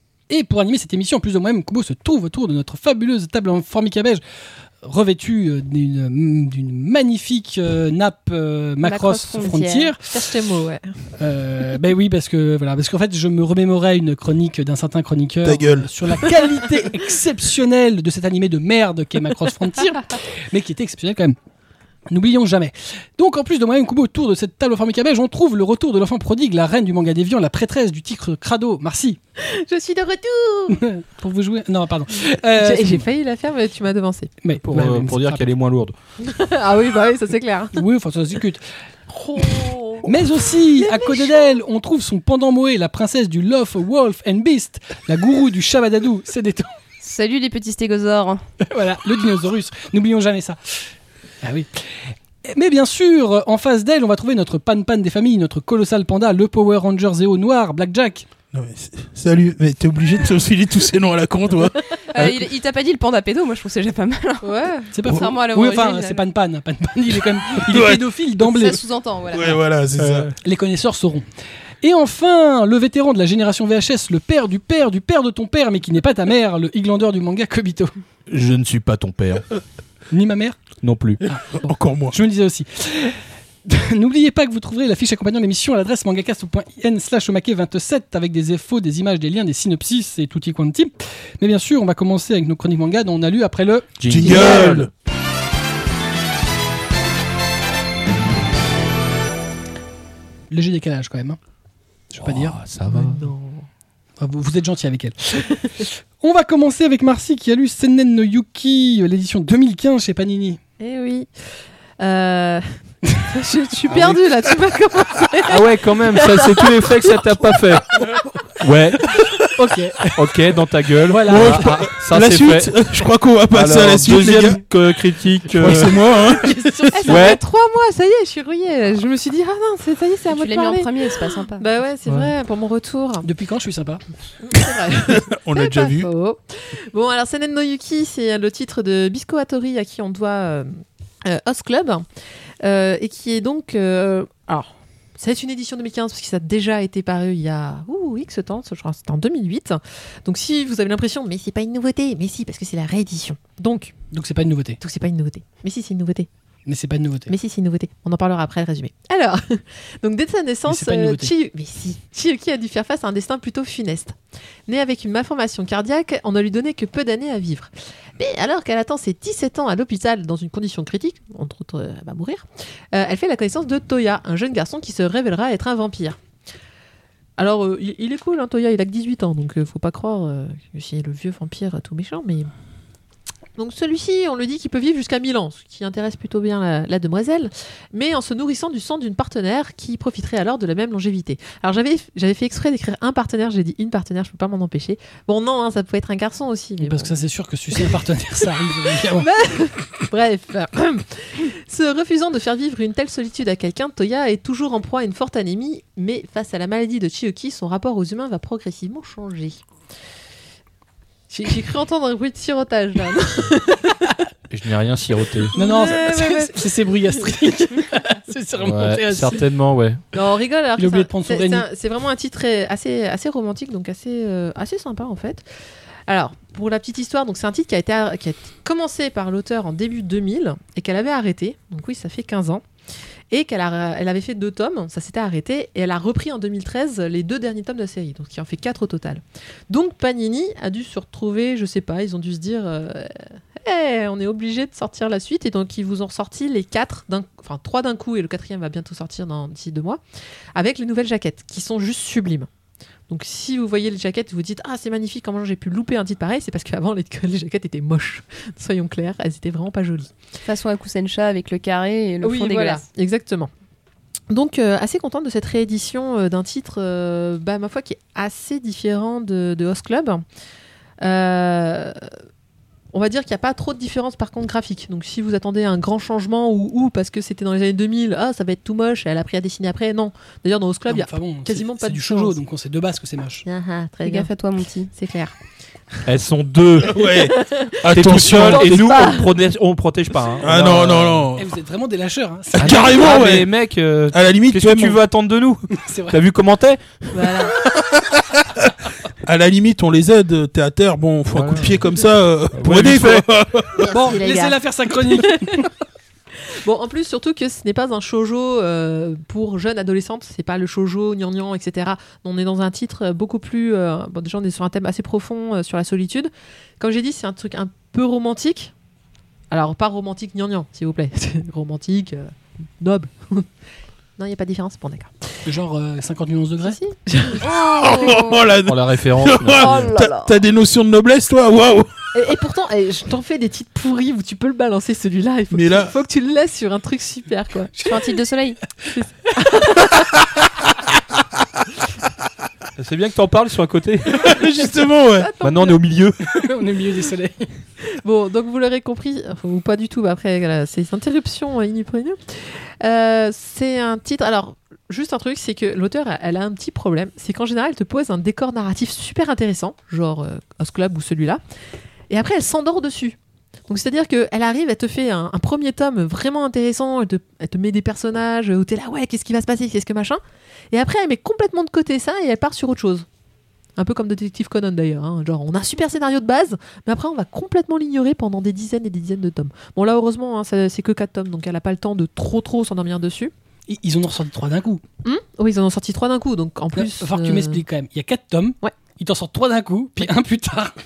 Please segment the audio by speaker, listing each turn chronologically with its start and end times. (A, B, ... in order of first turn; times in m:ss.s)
0:00.3-0:04.2 A
0:04.8-0:10.1 A
0:08.8-0:09.9 B
0:09.4-0:10.9 C
0:11.2-0:21.4 A
0:15.4-0:15.9 D
0:22.1-0:29.2 A
0:29.4-0:30.8 C
0:30.7-0:33.1 A
0:32.5-0:34.3 C
0:34.4-0:35.5 A
0:34.6-0:35.9 E
0:36.2-0:37.8 C
0:37.7-0:38.6 A
0:39.1-0:40.1 C
0:39.4-0:46.7 A
0:40.8-0:41.5 C
0:47.0-0:48.4 B
0:48.6-0:50.9 A
0:51.4-0:58.3 A
0:58.5-1:02.3 D
1:02.1-1:06.2 B
1:04.4-1:04.9 C
1:04.9-1:08.8 A
1:07.7-1:08.0 D
1:08.4-1:09.6 B
1:09.3-1:10.3 D
1:10.0-1:10.3 E
1:10.4-1:11.2 A
1:11.8-1:17.9 A
1:18.3-1:19.5 E
1:20.1-1:20.6 A
1:20.8-1:21.2 E
1:21.3-1:34.0 A
1:21.6-1:22.2 D
1:34.0-1:34.9 E
1:34.1-1:34.9 D
1:34.3-1:34.6 C
1:40.5-1:41.4 A
1:42.1-1:42.6 A
1:42.2-1:43.3 E
1:42.9-1:43.7 C
1:44.2-1:50.6 A
1:50.8-1:52.6 C
1:53.2-1:57.6 C
1:53.9-1:54.2 E
1:55.5-1:58.1 E
1:58.6-1:59.2 E
1:59.6-2:00.4 A
2:00.2-2:02.7 E
2:01.0-2:01.7 A
2:01.3-2:04.6 D
2:03.5-2:06.0 E
2:05.5-2:07.3 D
2:06.4-2:13.3 C
2:07.1-2:07.4 E
2:10.3-2:11.7 B
2:13.2-2:14.0 A
2:14.4-2:20.7 C
2:14.9-2:16.1 D
2:21.2-2:22.0 C
2:22.6-2:33.9 C
2:34.1-2:34.8 A
2:34.8-2:36.3 C
2:36.7-2:37.3 A
2:37.3-2:44.2 C
2:40.7-2:41.3 A
2:44.7-2:56.2 C
2:57.4-3:02.5 C
3:03.6-3:17.1 C
3:16.8-3:19.3 A
3:18.7-3:29.6 C
3:31.3-3:34.2 C
3:34.5-3:35.5 E
3:35.6-3:37.3 C
3:35.6-3:39.4 A
3:38.6-3:40.0 E
3:40.1-3:45.5 C
3:40.8-3:41.7 A
3:46.1-3:52.6 C
3:53.3-4:03.1 C
4:03.6-4:10.0 C
4:10.6-4:12.5 C
4:13.1-4:20.1 C
4:20.4-4:22.8 B
4:22.2-4:23.5 C
4:24.3-4:30.2 C
4:31.0-4:32.1 C
4:32.9-4:42.4 C
4:40.9-4:43.5 A
4:43.4-4:44.3 C
4:44.0-4:44.9 B
4:44.9-4:45.4 C
4:46.1-4:47.1 E
4:46.9-4:48.8 D
4:47.1-4:49.3 C
4:47.9-4:51.3 E
4:50.4-4:51.5 D
4:51.4-4:53.2 A
4:52.5-4:53.5 D
4:52.6-4:57.4 E
4:54.1-4:55.0 D
4:55.8-4:56.2 A
4:57.1-4:57.6 C
4:57.7-4:58.7 D
4:59.2-5:04.2 D
5:01.3-5:01.8 E
5:02.5-5:03.3 E
5:03.9-5:04.6 C
5:03.9-5:05.7 A
5:05.1-5:05.7 C
5:06.4-5:18.7 C
5:19.5-5:23.5 C
5:24.2-5:25.3 C
5:25.5-5:26.8 A
5:26.6-5:27.4 C
5:27.4-5:32.0 D
5:27.5-5:28.4 B
5:28.7-5:29.9 E
5:29.6-5:30.4 C
5:32.1-5:37.7 C
5:35.5-5:35.9 D
5:37.8-5:38.6 B
5:38.8-5:39.3 A
5:38.9-5:40.2 C
5:42.8-5:44.4 E
5:44.1-5:45.3 D
5:45.1-5:45.8 C
5:45.4-5:46.2 E
5:46.2-5:47.5 A
5:48.0-6:01.4 C
6:02.1-6:03.2 C
6:03.7-6:10.2 C
6:10.7-6:13.1 C
6:13.8-6:23.3 C
6:23.7-6:24.8 A
6:25.0-6:27.6 C
6:26.8-6:30.8 A